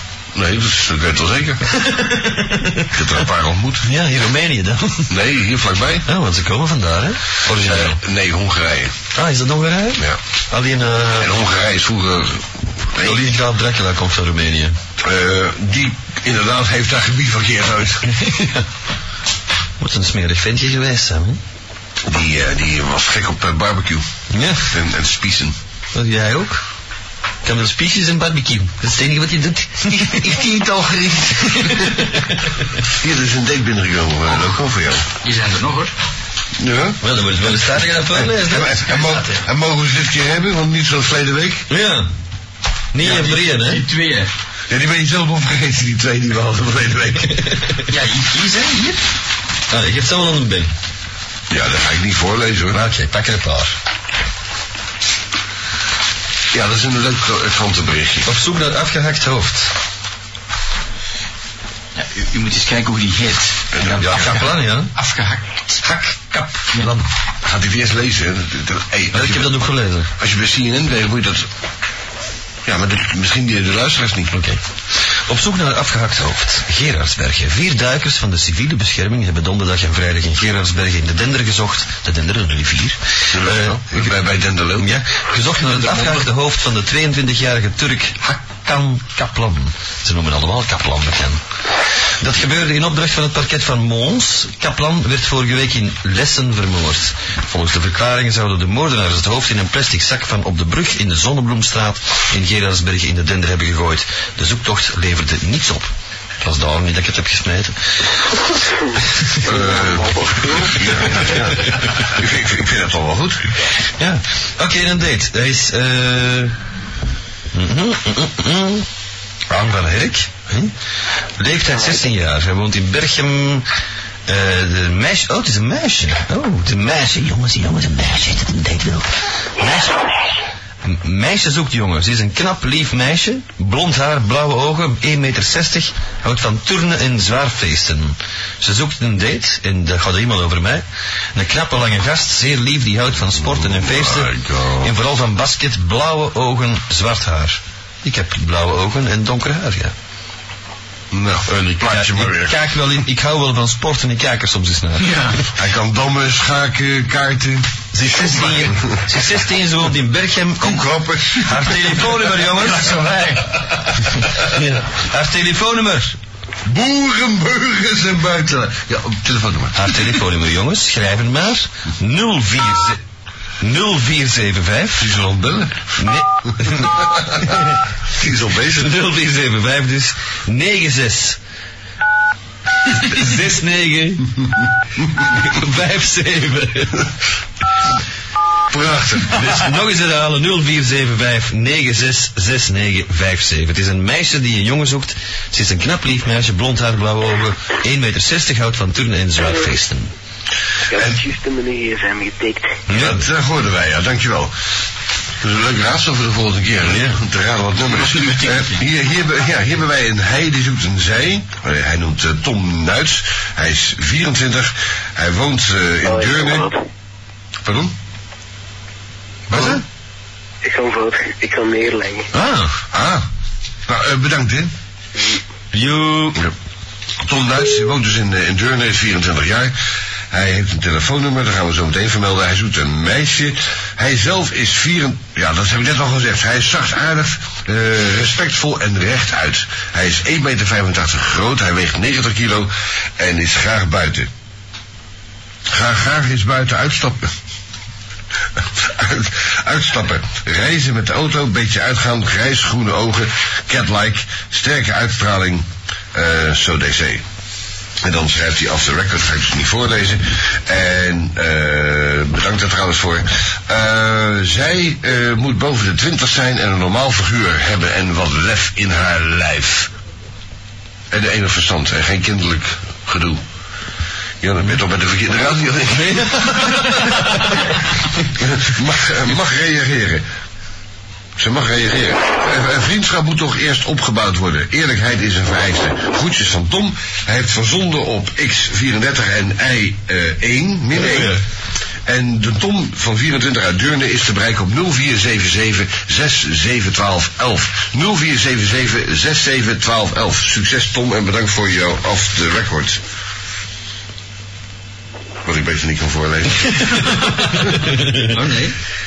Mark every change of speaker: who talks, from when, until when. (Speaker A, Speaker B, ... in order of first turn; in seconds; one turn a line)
Speaker A: 0.3-1.6
Speaker B: 1.7-2.9
Speaker A: 2.9-3.9
Speaker B: 3.8-5.1
Speaker A: 5.1-6.1
Speaker B: 6.1-8.0
Speaker A: 7.7-9.0
Speaker B: 9.2-11.3
Speaker A: 11.2-13.2
Speaker B: 13.0-14.8
Speaker A: 15.0-18.1
Speaker B: 18.1-18.6
Speaker B: 19.8-21.4
Speaker A: 22.1-24.1
Speaker B: 24.3-24.7
Speaker A: 24.7-25.6
Speaker B: 25.9-26.6
Speaker B: 27.4-30.2
Speaker A: 29.9-32.0
Speaker B: 31.5-32.5
Speaker A: 32.9-35.1
Speaker C: 35.2-36.0
Speaker A: 36.6-37.0
Speaker B: 37.0-38.9
Speaker A: 38.1-41.7
Speaker C: 38.9-39.4
Speaker B: 41.7-42.1
Speaker B: 42.9-43.9
Speaker C: 43.0-44.3
Speaker A: 44.7-47.5
Speaker B: 47.4-47.9
Speaker C: 47.9-49.0
Speaker B: 49.7-50.7
Speaker A: 51.5-52.8
Speaker B: 52.7-53.8
Speaker A: 56.5-58.3
Speaker B: 58.3-59.7
Speaker C: 62.0-65.8
Speaker A: 63.7-64.5
Speaker B: 64.0-65.0
Speaker B: 65.8-67.1
Speaker A: 67.4-69.6
Speaker B: 69.1-70.1
Speaker A: 70.2-71.5
Speaker A: 72.7-74.3
Speaker B: 74.3-74.6
Speaker B: 75.3-84.1
Speaker A: 83.3-84.9
Speaker B: 84.8-91.4
Speaker B: 92.2-105.9
Speaker B: 106.4-107.8
Speaker A: 109.4-113.5
Speaker D: 109.5-110.8
Speaker B: 114.0-116.5
Speaker B: 117.5-118.9
Speaker B: 119.5-120.7
Speaker B: 121.4-123.7
Speaker B: 124.3-130.0
Speaker B: 130.8-144.3
Speaker A: 143.3-144.9
Speaker B: 144.8-149.9
Speaker A: 151.1-152.6
Speaker B: 151.5-155.4
Speaker C: 155.0-155.4
Speaker A: 155.6-157.8
Speaker B: 157.9-160.8
Speaker A: 158.3-159.0
Speaker A: 160.6-162.4
Speaker B: 161.4-163.1
Speaker C: 162.7-163.5
Speaker B: 164.2-166.2
Speaker A: 166.7-170.0
Speaker B: 169.7-173.0
Speaker B: 173.6-175.1
Speaker A: 175.0-175.9
Speaker B: 176.0-177.8
Speaker A: 177.0-177.5
Speaker A: 178.2-178.9
Speaker B: 178.8-181.4
Speaker B: 182.9-184.4
Speaker B: 185.0-187.1
Speaker A: 188.7-189.5
Speaker B: 189.3-200.1
Speaker D: 200.9-202.8
Speaker B: 202.9-203.2
Speaker A: 202.9-204.5
Speaker A: 205.4-216.7
Speaker B: 206.8-207.2
Speaker C: 208.0-208.8
Speaker D: 216.1-216.8
Speaker A: 217.6-217.9
Speaker A: 219.5-219.8
Speaker B: 219.5-219.8
Speaker D: 220.6-222.3
Speaker B: 222.3-222.8
Speaker A: 222.9-223.3
Speaker A: 223.9-224.7
Speaker B: 225.7-226.4
Speaker A: 227.2-229.7
Speaker A: 230.3-244.3
Speaker A: 245.7-247.3
Speaker A: 248.6-257.2
Speaker A: 258.0-269.9
Speaker A: 271.1-273.4
Speaker A: 274.4-276.6
Speaker B: 275.9-277.8
Speaker A: 278.4-280.2
Speaker A: 281.4-291.4
Speaker B: 291.0-291.4
Speaker A: 292.1-303.0
Speaker A: 305.4-307.1
Speaker B: 307.6-308.3
Speaker C: 308.3-308.8